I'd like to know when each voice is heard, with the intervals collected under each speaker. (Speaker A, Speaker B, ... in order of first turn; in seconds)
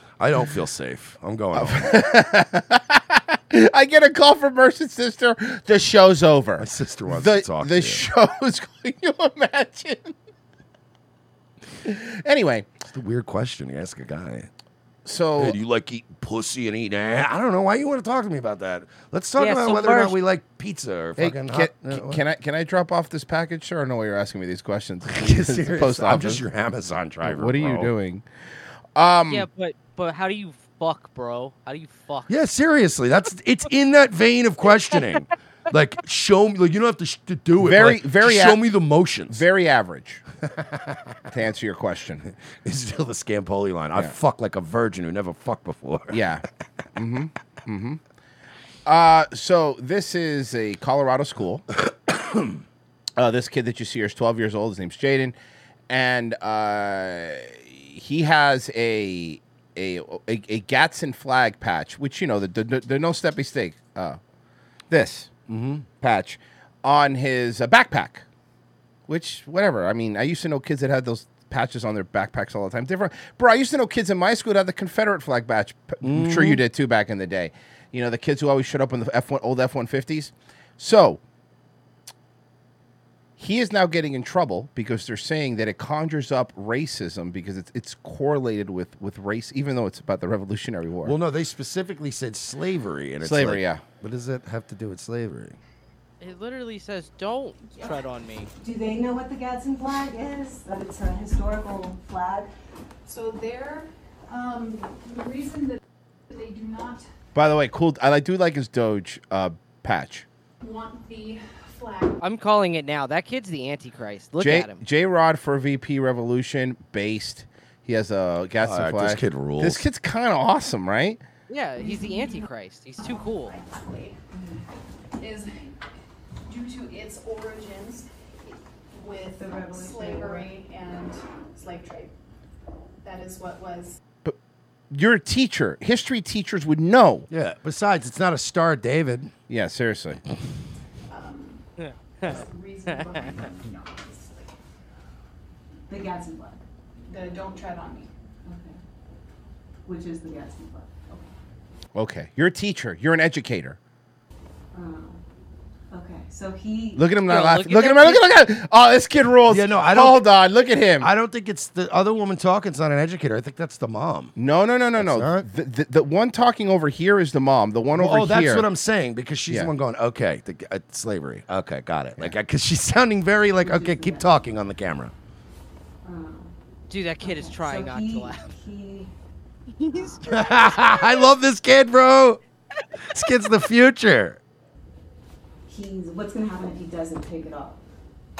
Speaker A: 0.2-2.0, 6.6-8.1, 12.9-14.5, 15.4-22.2, 25.1-27.9, 32.3-39.4, 40.6-41.1, 42.6-46.2, 52.1-52.6, 65.5-65.8, 76.0-76.6, 91.0-95.6, 118.6-119.8, 137.3-139.3, 159.5-160.2, 161.0-164.3, 165.0-165.5, 167.9-175.1, 180.2-182.4, 183.1-184.4
Speaker B: 1.5-10.1, 11.8-12.7, 15.0-15.6, 21.2-26.4, 27.2-28.2, 28.9-29.4, 37.6-38.6, 39.3-40.2, 41.3-42.3, 46.1-46.4, 47.0-48.0, 48.9-51.6, 53.2-55.3, 55.9-64.2, 64.9-65.3, 66.0-68.2, 69.1-81.2, 83.4-91.2, 93.2-93.8, 107.3-110.2, 114.4-121.2, 134.9-137.3, 139.5-140.2, 151.9-153.8, 156.9-161.1, 164.4-168.7
Speaker C: 19.4-20.2, 29.3-32.3, 96.2-98.5, 112.2-114.8, 121.5-123.5, 141.8-143.3, 157.3-158.2, 176.9-178.5, 179.8-180.2
Speaker D: 97.7-98.0, 103.0-107.1, 110.6-112.2, 121.8-124.2, 125.2-125.7, 126.5-128.1, 128.9-132.1, 133.0-134.0, 141.1-141.6, 142.2-144.5, 147.1-148.1
Speaker E: 98.6-102.5, 124.3-124.6, 129.4-130.5, 145.9-146.6, 148.4-148.8, 149.9-151.3, 154.7-155.2, 155.9-157.1, 173.6-174.3, 176.0-176.5, 177.2-179.1, 179.9-180.2, 185.7-187.8